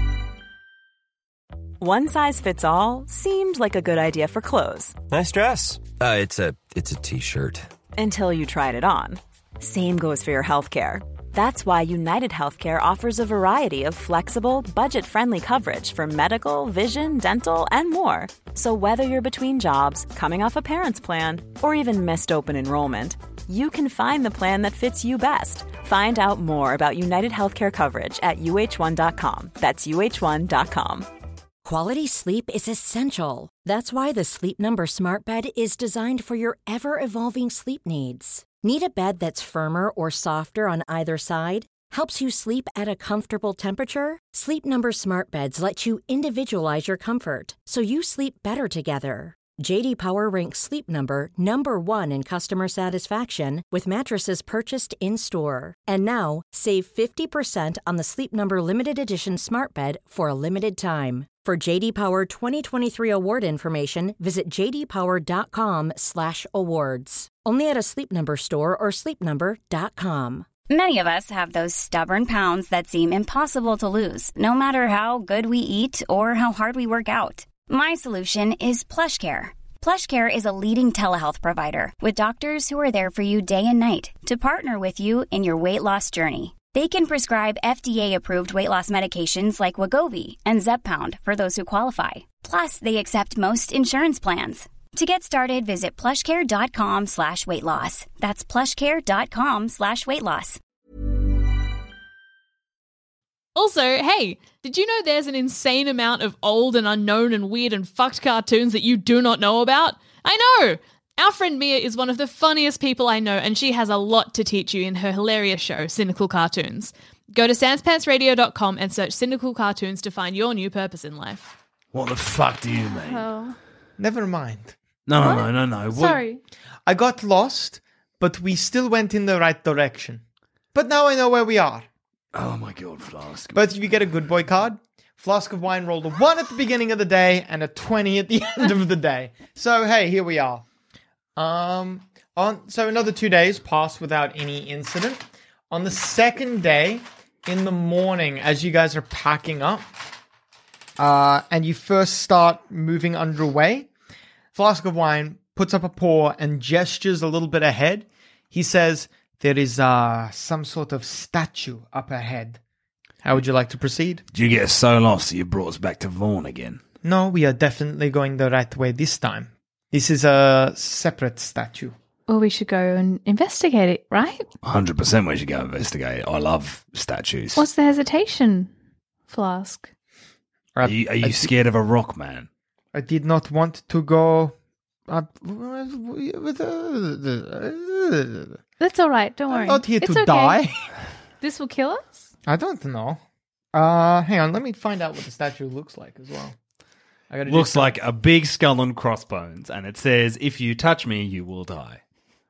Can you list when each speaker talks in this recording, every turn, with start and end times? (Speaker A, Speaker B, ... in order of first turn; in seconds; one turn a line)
Speaker A: 1.8-5.0
Speaker B: 5.1-7.7
Speaker A: 8.0-31.1
Speaker C: 31.6-70.5
Speaker D: 70.7-100.6
Speaker E: 103.5-121.6
Speaker F: 121.9-123.3
Speaker G: 122.7-123.6
Speaker H: 124.0-124.8
Speaker F: 125.1-126.2
Speaker G: 125.2-126.4
Speaker H: 126.9-130.2
Speaker H: 130.7-131.9
Speaker F: 132.3-133.5
Speaker H: 133.5-140.7
Speaker H: 141.4-149.9
Speaker H: 151.0-153.9
Speaker H: 154.5-162.6
Speaker H: 163.2-164.2
Speaker F: 164.3-166.8
Speaker H: 167.0-171.9
Speaker G: 172.3-174.5
Speaker F: 174.6-177.6
Speaker G: 177.6-178.7
Speaker G: 179.3-179.9
Speaker H: 180.8-181.5
Speaker F: 180.8-182.5
Speaker H: 182.9-184.6
Speaker H: 185.1-188.6
Speaker G: 188.8-190.6
Speaker H: 189.5-190.8
Speaker G: 191.4-192.3
Speaker H: 192.5-193.2
Speaker H: 193.7-196.6
Speaker H: 197.3-198.0
Speaker I: 197.5-202.0